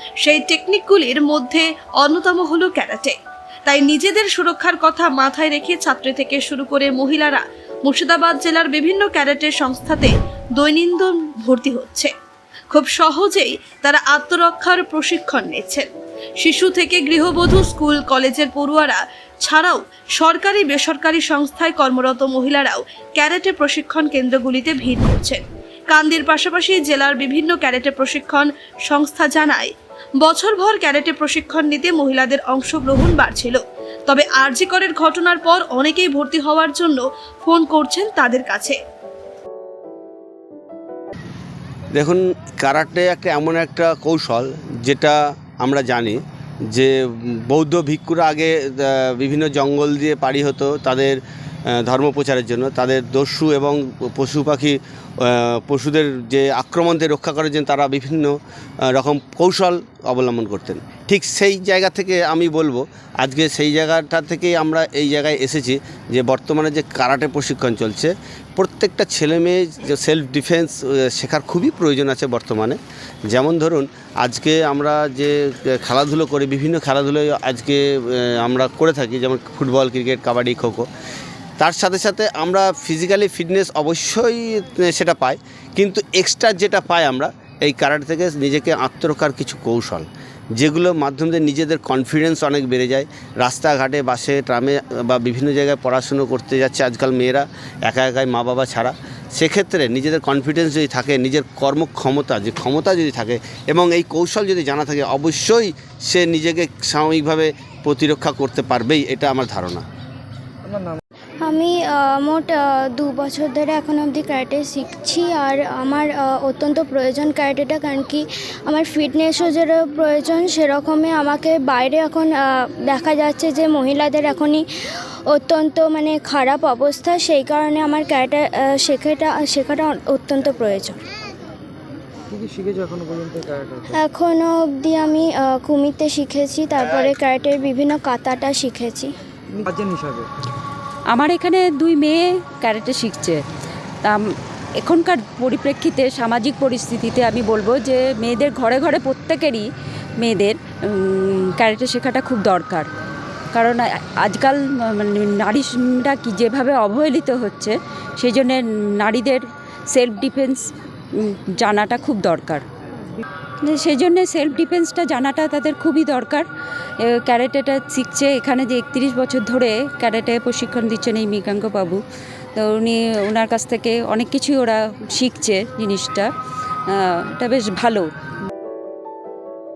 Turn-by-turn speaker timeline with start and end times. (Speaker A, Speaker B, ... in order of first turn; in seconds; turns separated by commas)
Speaker A: 0.2-12.1, Speaker A: 12.7-15.9, Speaker A: 16.4-38.8, Speaker B: 41.9-80.9, Speaker B: 81.6-109.8, Speaker C: 110.7-111.0, Speaker D: 111.4-124.6, Speaker D: 125.3-131.0, Speaker C: 132.3-133.9, Speaker D: 133.9-139.1, Speaker C: 139.5-140.3, Speaker E: 141.1-143.4, Speaker E: 144.8-149.6, Speaker E: 150.2-152.9, Speaker E: 153.5-160.6, Speaker E: 161.2-162.6, Speaker E: 163.6-166.4, Speaker E: 167.1-172.0, Speaker E: 172.6-176.3, Speaker E: 176.9-178.1